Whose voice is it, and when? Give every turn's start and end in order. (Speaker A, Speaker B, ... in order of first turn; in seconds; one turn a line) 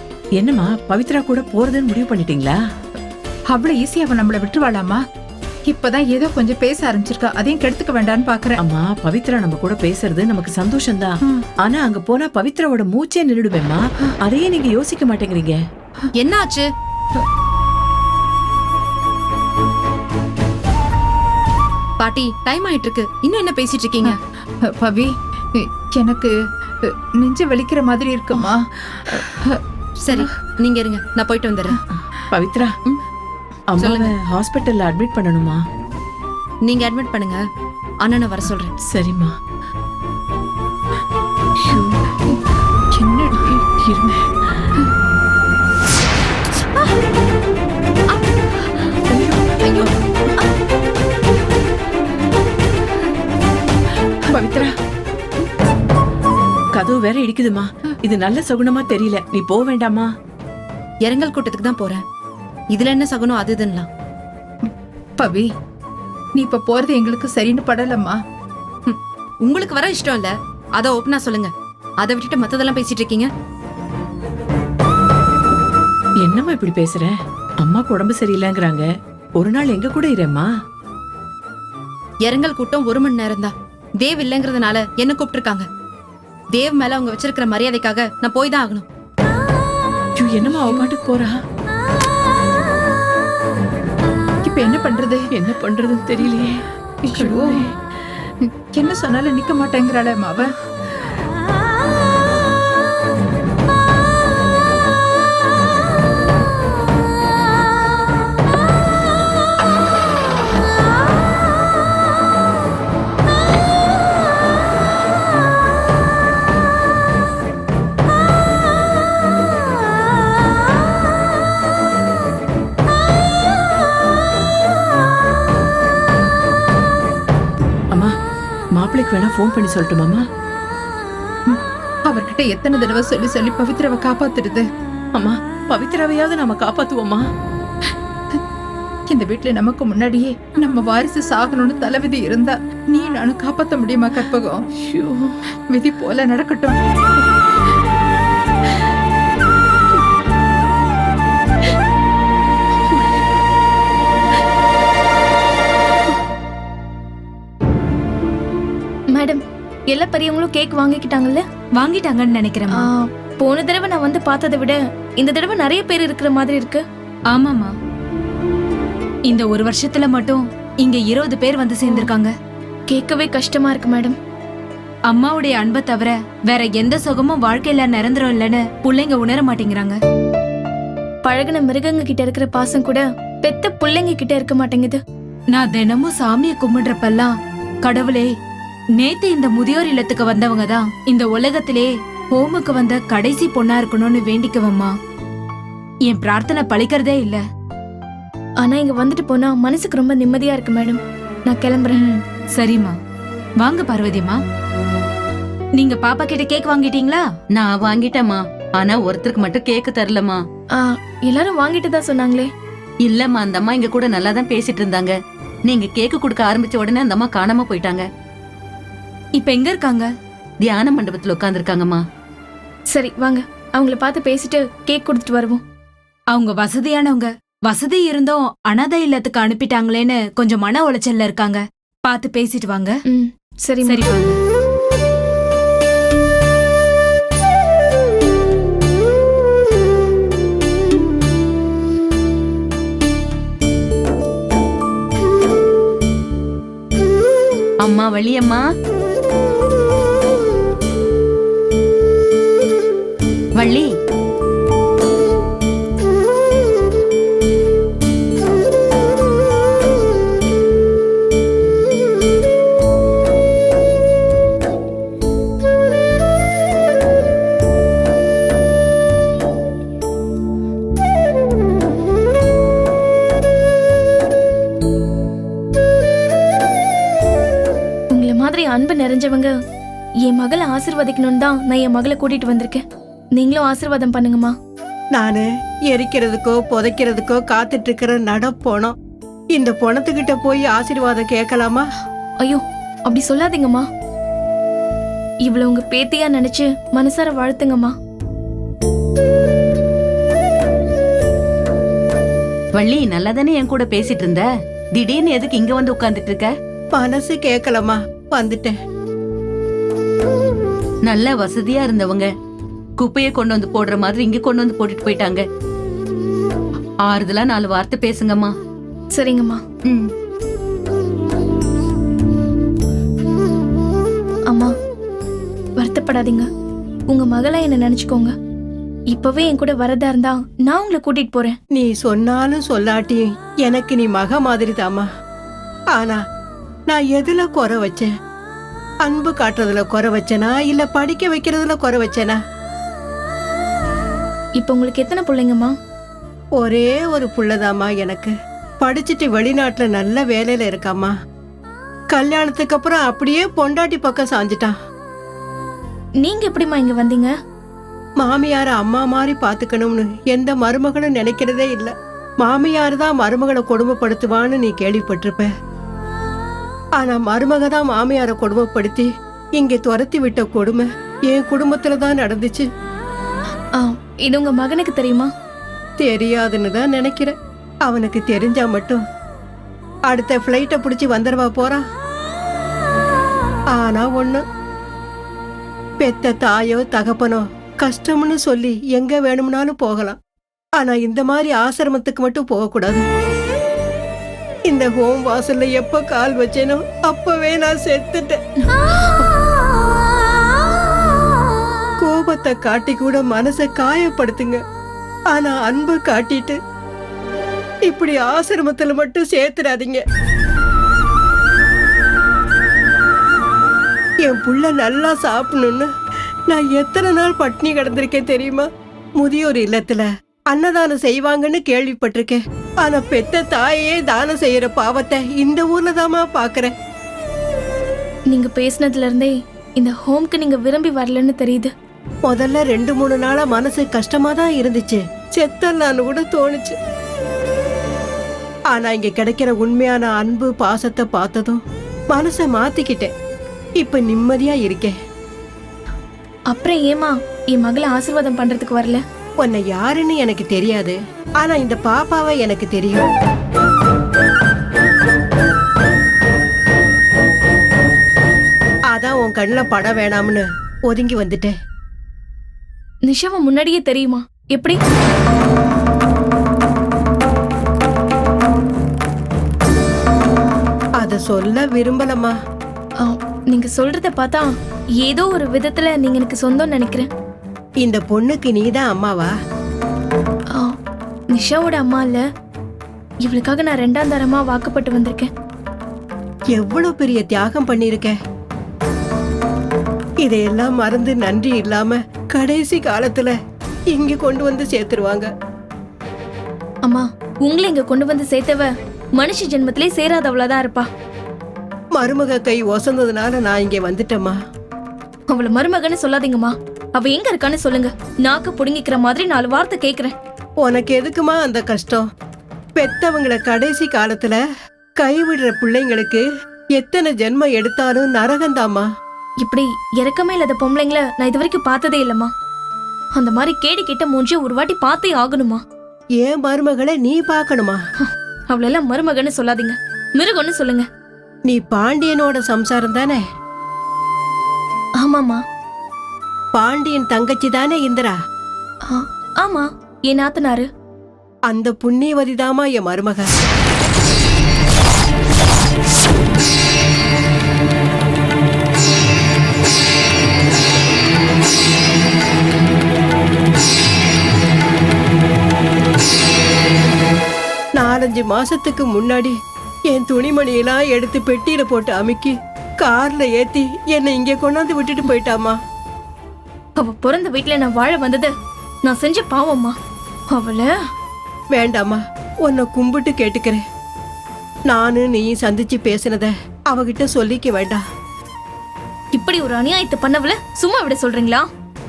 Speaker A: 0.4-2.6
Speaker B: 3.5-5.0
Speaker B: 5.7-8.6
Speaker A: 8.6-15.6
Speaker C: 16.2-16.7
Speaker C: 22.0-24.1
Speaker B: 24.1-26.3
Speaker B: 27.2-29.6
Speaker C: 30.1-31.8
Speaker A: 32.3-32.8
Speaker A: 33.7-35.6
Speaker C: 33.8-34.1
Speaker C: 36.7-37.4
Speaker C: 38.0-38.7
Speaker A: 38.9-39.3
Speaker B: 43.1-43.4
Speaker A: 43.4-44.2
Speaker A: 49.1-49.8
Speaker A: 54.3-54.7
Speaker A: 56.8-60.1
Speaker C: 61.0-62.0
Speaker C: 62.7-63.9
Speaker B: 65.2-65.5
Speaker B: 66.4-68.2
Speaker C: 68.9-71.5
Speaker C: 72.0-73.3
Speaker A: 76.2-78.8
Speaker A: 79.4-80.5
Speaker C: 82.2-85.7
Speaker C: 86.5-88.8
Speaker A: 90.2-91.3
Speaker B: 90.5-90.9
Speaker B: 94.5-95.3
Speaker A: 95.3-96.6
Speaker B: 97.1-97.7
Speaker A: 97.2-97.7
Speaker B: 98.7-100.5
Speaker A: 128.8-130.2
Speaker B: 131.5-134.7
Speaker A: 135.2-137.3
Speaker B: 139.1-145.1
Speaker B: 145.7-146.8
Speaker D: 159.1-161.4
Speaker E: 161.8-162.9
Speaker D: 162.8-166.8
Speaker E: 167.3-167.7
Speaker E: 169.3-172.3
Speaker D: 172.9-174.2
Speaker E: 175.1-180.0
Speaker D: 181.2-185.0
Speaker E: 185.6-187.3
Speaker E: 187.8-188.3
Speaker E: 189.0-194.9
Speaker E: 196.1-197.4
Speaker D: 198.6-202.0
Speaker E: 201.9-202.9
Speaker E: 203.6-204.4
Speaker E: 205.8-207.2
Speaker F: 207.5-210.4
Speaker D: 210.8-212.5
Speaker F: 213.0-215.1
Speaker F: 215.7-218.0
Speaker E: 219.4-220.1
Speaker F: 220.6-222.0
Speaker D: 222.9-225.6
Speaker E: 226.3-233.0
Speaker D: 233.1-234.1
Speaker E: 233.8-234.4
Speaker F: 247.8-248.6
Speaker F: 253.6-253.9
Speaker D: 278.1-279.5
Speaker D: 280.2-282.8
Speaker D: 283.4-284.6
Speaker G: 285.2-288.9
Speaker G: 289.6-291.9
Speaker D: 292.4-293.9
Speaker D: 295.4-297.9
Speaker F: 302.8-304.4
Speaker F: 305.0-306.5
Speaker G: 307.0-308.8
Speaker F: 311.1-312.3
Speaker F: 313.0-315.4
Speaker F: 317.1-318.5
Speaker D: 319.2-319.6
Speaker D: 325.8-326.5
Speaker D: 327.1-328.3
Speaker D: 329.1-331.6
Speaker G: 331.7-335.1
Speaker G: 335.9-336.2
Speaker G: 336.9-338.1
Speaker G: 339.1-342.4
Speaker D: 344.6-345.8
Speaker G: 346.6-351.1
Speaker G: 352.1-354.7
Speaker D: 356.2-357.3
Speaker G: 358.2-365.5
Speaker G: 367.0-372.7
Speaker D: 373.8-375.3
Speaker G: 376.0-377.4
Speaker G: 377.9-379.0
Speaker G: 380.1-381.8
Speaker G: 383.7-384.4
Speaker G: 386.0-390.2
Speaker G: 390.8-393.1
Speaker G: 394.7-398.4
Speaker G: 402.0-404.6
Speaker G: 405.3-406.6
Speaker G: 407.9-410.0
Speaker G: 414.2-415.9
Speaker G: 416.5-418.7
Speaker G: 419.2-426.7
Speaker D: 428.3-431.7
Speaker G: 432.3-436.8
Speaker G: 438.7-441.6
Speaker G: 442.1-443.1
Speaker G: 443.8-444.9
Speaker D: 446.5-449.0
Speaker G: 449.4-453.1
Speaker G: 458.9-461.5
Speaker D: 463.1-464.8
Speaker G: 471.0-472.3
Speaker D: 473.0-477.1
Speaker G: 477.8-479.3
Speaker D: 481.3-482.2
Speaker D: 483.2-485.3
Speaker G: 486.6-488.2
Speaker G: 490.2-493.4
Speaker G: 493.9-495.3
Speaker D: 496.9-500.9
Speaker G: 502.0-504.4
Speaker D: 505.3-510.1
Speaker G: 510.6-512.1
Speaker G: 512.8-514.4
Speaker G: 515.0-516.2
Speaker G: 516.8-518.9
Speaker D: 519.4-522.3
Speaker D: 523.2-525.6
Speaker G: 526.2-527.8
Speaker D: 528.0-530.9
Speaker G: 531.5-533.2
Speaker D: 535.0-535.4
Speaker G: 536.6-538.2
Speaker D: 538.9-540.7
Speaker G: 541.5-543.3
Speaker G: 557.8-559.4
Speaker G: 559.9-565.6
Speaker D: 566.8-568.3
Speaker D: 568.9-569.8
Speaker D: 570.3-570.7
Speaker G: 571.6-573.6
Speaker G: 574.7-577.8
Speaker D: 579.1-581.5